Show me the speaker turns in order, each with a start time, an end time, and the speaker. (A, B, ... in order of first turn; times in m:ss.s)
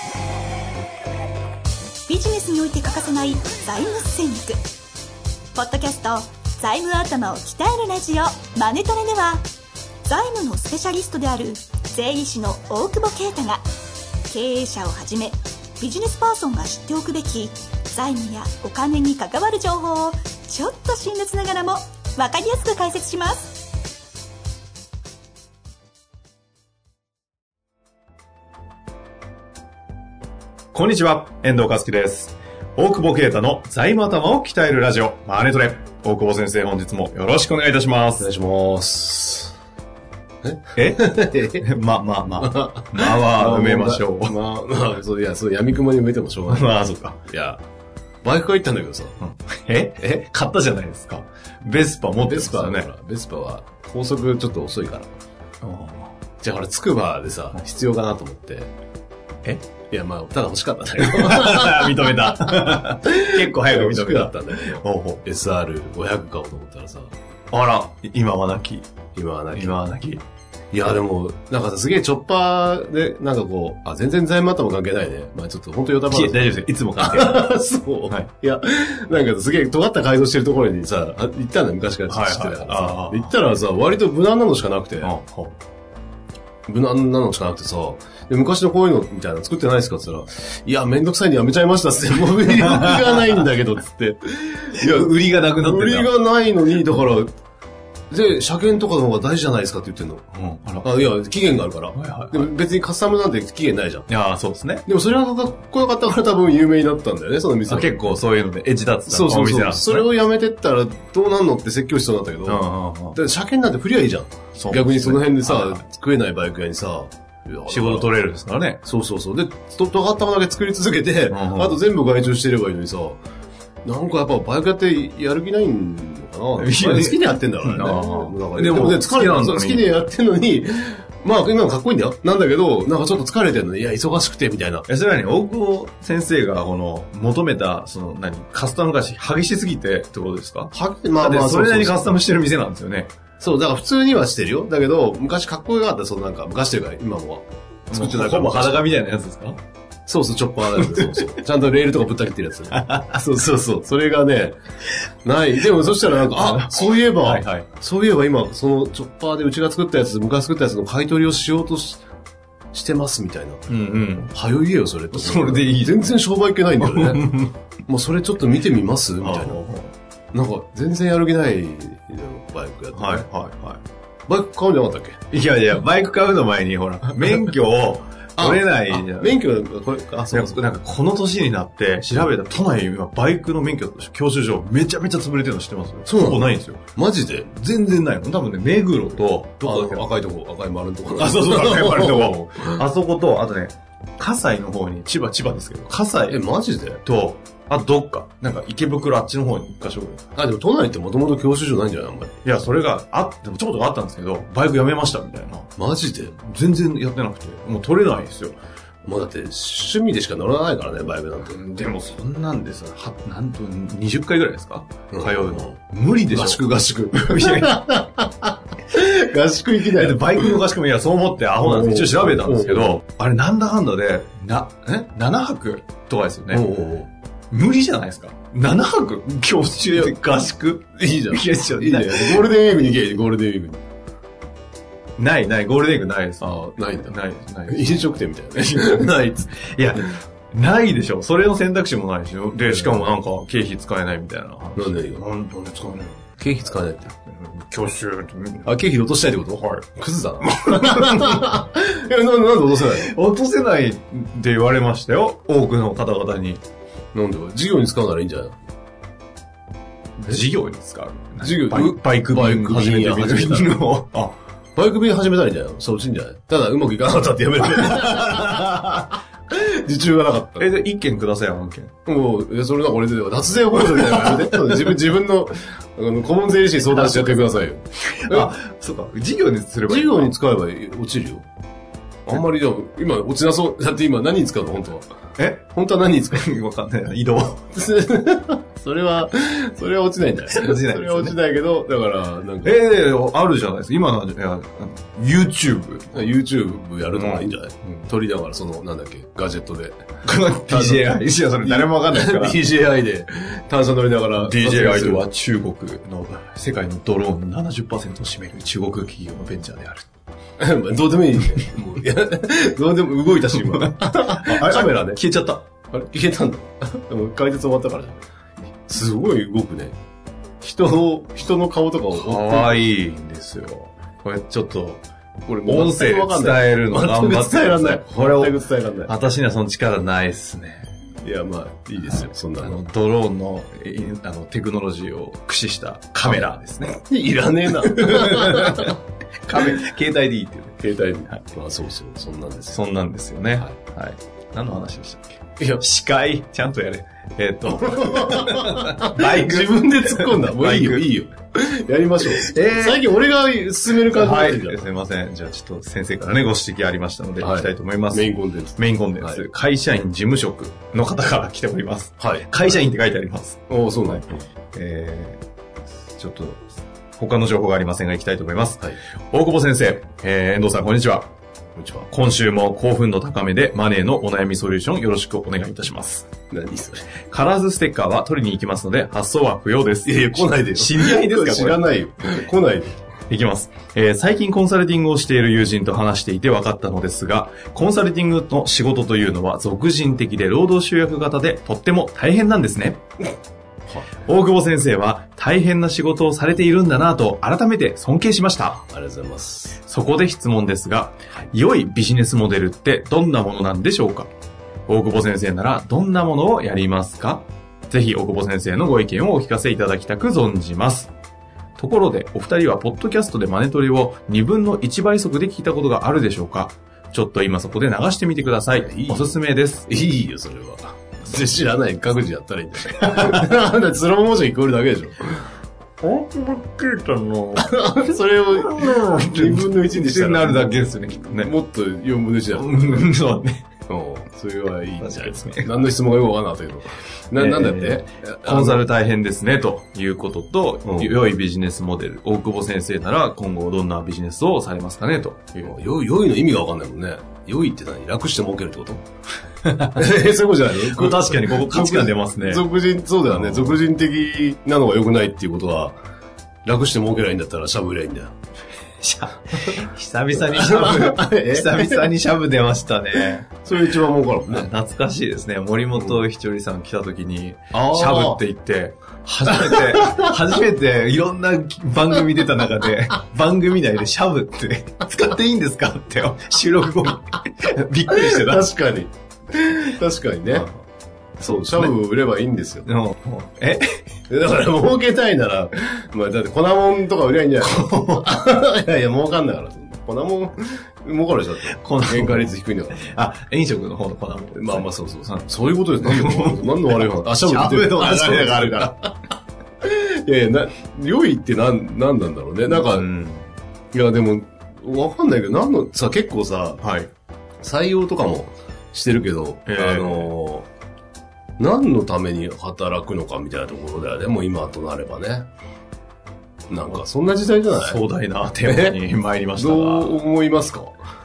0:02.1-0:04.6 A
0:05.5-0:09.5 A
0:10.0-0:13.6 A
0:14.3-0:23.7 A
0:30.7-0:38.3 B
0:38.2-0:39.6 C
0:40.4-0:41.6 C
0:40.8-0:44.4 B
0:42.4-0:47.6 C
0:46.5-0:47.2 B
0:48.2-0:49.2 C
0:49.2-0:52.9 B
0:52.2-0:55.1 C
0:55.6-0:56.1 B
0:56.4-0:58.7 C
0:59.9-1:07.1 C
1:01.0-1:05.2 B
1:07.5-1:08.9 B
1:09.2-1:09.8 C
1:09.5-1:10.2 B
1:10.7-1:25.1 C
1:16.1-1:17.5 B
1:22.1-1:23.3 B
1:25.0-1:25.6 B
1:26.7-1:37.3 C
1:32.4-1:33.4 B
1:34.7-1:36.1 B
1:38.1-1:40.2 C
1:40.3-1:41.0 B
1:40.8-1:44.1 C
1:42.0-1:42.5 B
1:44.1-1:44.8 B
1:44.8-1:48.0 C
1:47.7-1:50.1 B
1:49.1-1:58.1 C
1:52.4-1:53.2 B
1:54.6-1:55.8 B
1:57.7-1:58.8 B
1:58.8-2:03.2 C
2:01.3-2:01.8 B
2:03.8-2:14.8 C
2:06.6-2:09.9 B
2:14.9-2:23.1 B
2:20.7-2:22.1 C
2:23.4-2:28.8 C
2:27.9-2:29.6 B
2:30.1-2:34.6 C
2:30.8-2:31.2 B
2:32.7-2:33.2 B
2:35.2-2:42.0 C
2:36.0-2:37.7 B
2:42.7-2:43.7 C
2:43.7-2:44.3 B
2:44.3-2:47.4 C
2:45.1-2:46.1 B
2:46.8-2:47.6 B
2:47.9-2:49.6 C
2:49.2-2:49.9 B
2:50.3-2:53.3 C
2:52.9-2:53.8 B
2:54.3-2:55.2 C
2:55.3-2:59.4 B
2:58.4-3:00.6 C
3:00.3-3:06.8 B
3:06.1-3:07.5 C
3:07.5-3:10.1 B
3:09.6-3:12.8 C
3:11.2-3:16.4 B
3:16.3-3:17.0 C
3:17.0-3:20.3 B
3:20.3-3:22.4 C
3:22.4-3:25.7 B
3:25.8-3:26.3 C
3:26.3-3:28.6 B
3:29.1-3:31.6 C
3:31.5-3:38.0 B
3:35.1-3:35.8 C
3:36.3-3:36.6 C
3:37.2-3:40.6 C
3:39.8-3:46.7 B
3:41.6-3:43.0 C
3:46.5-3:47.1 C
3:47.5-3:52.5 B
3:49.9-3:50.2 C
3:50.9-3:53.8 C
3:55.2-4:06.2 B
3:56.4-3:57.2 C
3:57.7-3:59.2 C
4:02.7-4:03.1 C
4:04.8-4:05.2 C
4:06.4-4:07.1 C
4:07.2-4:08.7 B
4:08.6-4:13.1 C
4:09.5-4:09.8 B
4:10.7-4:11.5 B
4:12.9-4:16.6 B
4:17.1-4:18.5 C
4:20.2-4:24.4 B
4:21.4-4:23.8 C
4:24.8-4:30.8 C
4:27.7-4:29.1 B
4:30.6-4:31.9 B
4:32.0-4:38.5 C
4:33.7-4:35.0 B
4:36.9-4:37.5 B
4:38.0-4:40.3 B
4:39.9-4:41.4 C
4:42.2-4:45.0 C
4:45.4-4:45.6 B
4:45.7-4:46.5 C
4:46.3-4:47.7 B
4:47.7-4:52.7 C
4:50.5-4:51.4 B
4:52.6-4:56.2 B
4:56.1-5:00.0 C
4:57.1-4:58.1 B
5:00.2-5:02.6 B
5:00.6-5:05.2 C
5:04.4-5:10.1 B
5:10.6-5:15.2 C
5:13.7-5:15.7 B
5:15.9-5:18.2 C
5:18.9-5:20.0 C
5:20.6-5:22.8 C
5:22.1-5:25.0 B
5:25.4-5:29.1 C
5:25.6-5:30.9 B
5:31.2-5:32.8 C
5:32.0-5:37.0 B
5:37.0-5:39.0 C
5:37.8-5:41.4 B
5:40.8-5:42.8 C
5:42.7-5:51.0 B
5:45.6-5:45.8 C
5:47.9-5:54.9 C
5:52.3-5:53.0 B
5:54.1-6:05.4 B
5:57.4-5:59.4 C
6:02.2-6:02.5 C
6:03.7-6:04.4 C
6:06.1-6:06.6 B
6:07.2-6:11.3 B
6:11.8-6:12.1 C
6:12.1-6:16.3 B
6:16.5-6:17.1 C
6:17.3-6:21.8 B
6:20.0-6:22.9 C
6:23.3-6:33.0 B
6:33.9-6:34.2 C
6:34.2-6:38.8 B
6:38.9-6:39.8 C
6:39.8-6:44.3 B
6:44.9-6:51.1 B
6:51.8-6:59.9 B
6:58.8-7:05.5 C
7:03.0-7:03.4 B
7:06.0-7:07.7 B
7:07.6-7:13.1 C
7:08.5-7:11.5 B
7:12.5-7:13.6 B
7:13.9-7:18.9 C
7:15.0-7:15.9 B
7:17.3-7:25.7 B
7:20.8-7:21.2 C
7:25.6-7:29.0 C
7:29.6-7:30.1 B
7:29.9-7:36.0 C
7:30.8-7:32.6 B
7:33.3-7:33.8 B
7:36.6-7:38.3 C
7:39.0-7:44.0 B
7:40.4-7:42.1 C
7:43.5-7:44.7 C
7:44.5-7:58.7 B
7:47.7-7:48.4 C
7:49.5-7:50.3 C
7:58.1-8:00.7 C
8:00.5-8:00.7 B
8:01.4-8:02.9 C
8:01.4-8:01.9 B
8:02.8-8:04.0 B
8:04.3-8:13.1 C
8:07.6-8:08.3 B
8:11.7-8:19.0 B
8:14.5-8:19.1 C
8:19.8-8:23.1 C
8:22.7-8:23.5 B
8:23.9-8:26.8 C
8:26.8-8:27.1 B
8:27.6-8:30.7 C
8:29.7-8:30.3 B
8:31.6-8:35.5 C
8:36.7-8:38.0 C
8:37.8-8:40.2 B
8:38.6-8:39.0 C
8:39.6-8:41.0 C